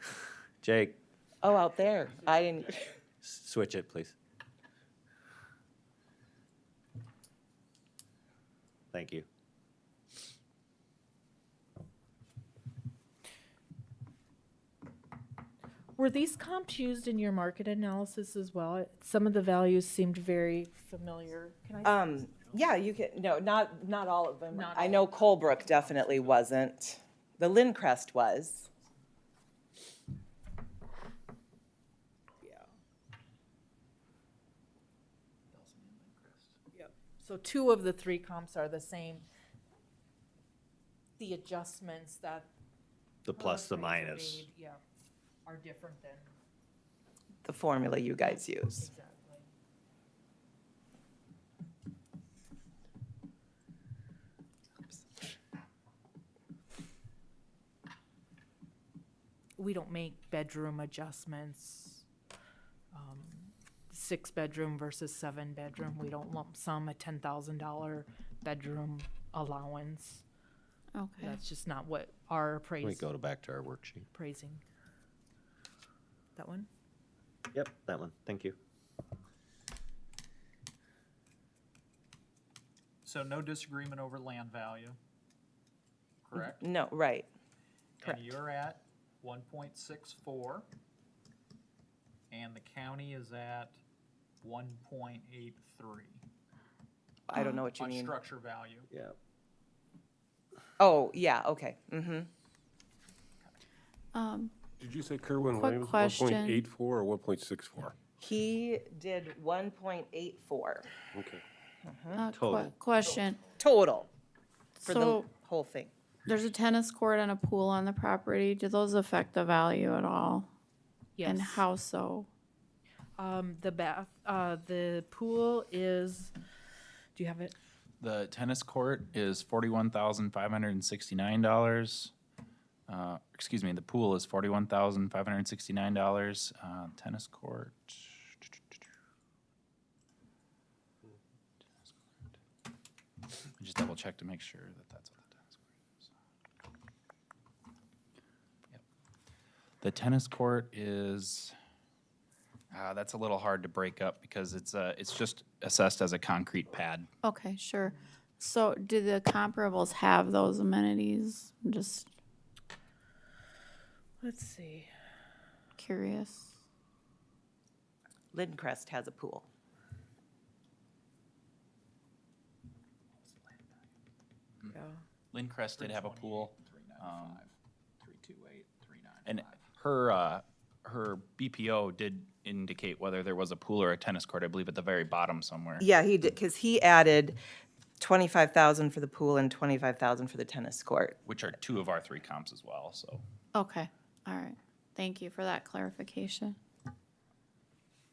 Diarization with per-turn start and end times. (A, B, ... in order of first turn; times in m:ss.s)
0:00.6-0:01.0 A
0:01.4-0:03.0 B
0:03.2-0:04.2 A
0:08.9-0:09.3 A
0:16.0-0:22.3 C
0:21.8-0:28.7 B
0:24.5-0:25.8 C
0:35.6-0:36.4 D
0:36.7-0:39.2 C
0:41.2-0:42.5 C
0:43.2-0:44.5 A
0:43.4-0:44.8 C
0:45.4-0:46.3 C
0:47.4-0:48.9 B
0:48.8-0:49.5 C
0:59.6-1:02.0 C
1:02.9-1:10.2 C
1:10.9-1:11.4 E
1:11.2-1:13.1 C
1:12.8-1:14.1 A
1:14.1-1:14.6 C
1:16.4-1:16.7 C
1:17.5-1:18.6 A
1:23.0-1:25.0 D
1:26.3-1:26.7 D
1:26.4-1:27.3 B
1:28.0-1:30.6 D
1:28.0-1:28.3 B
1:32.3-1:33.8 D
1:34.4-1:36.2 D
1:37.3-1:38.2 B
1:37.3-1:37.7 E
1:37.7-1:38.8 D
1:38.9-1:39.2 A
1:40.8-1:42.3 B
1:44.1-1:44.6 E
1:44.8-1:48.0 F
1:45.5-1:46.6 E
1:48.2-1:50.9 B
1:51.1-1:51.4 F
1:51.9-1:52.3 B
1:52.1-1:53.5 E
1:52.3-1:52.7 A
1:53.6-1:54.1 B
1:54.8-1:55.3 E
1:54.8-1:55.9 B
1:56.3-2:00.5 E
2:01.2-2:01.7 C
2:01.2-2:02.3 E
2:03.2-2:06.4 C
2:07.2-2:07.5 C
2:08.0-2:12.1 G
2:12.9-2:18.5 G
2:23.6-2:26.1 G
2:29.8-2:31.6 G
2:32.7-2:37.1 G
2:37.2-2:42.1 E
2:44.2-2:44.9 C
2:45.8-2:46.5 E
2:48.3-2:49.5 B
2:54.7-2:55.0 C
2:55.3-2:57.4 G
2:55.8-2:57.5 D
2:58.0-2:59.4 D
2:59.2-3:05.9 G
3:05.8-3:07.4 B
3:08.0-3:11.2 B
3:11.3-3:13.2 G
3:13.6-3:16.6 E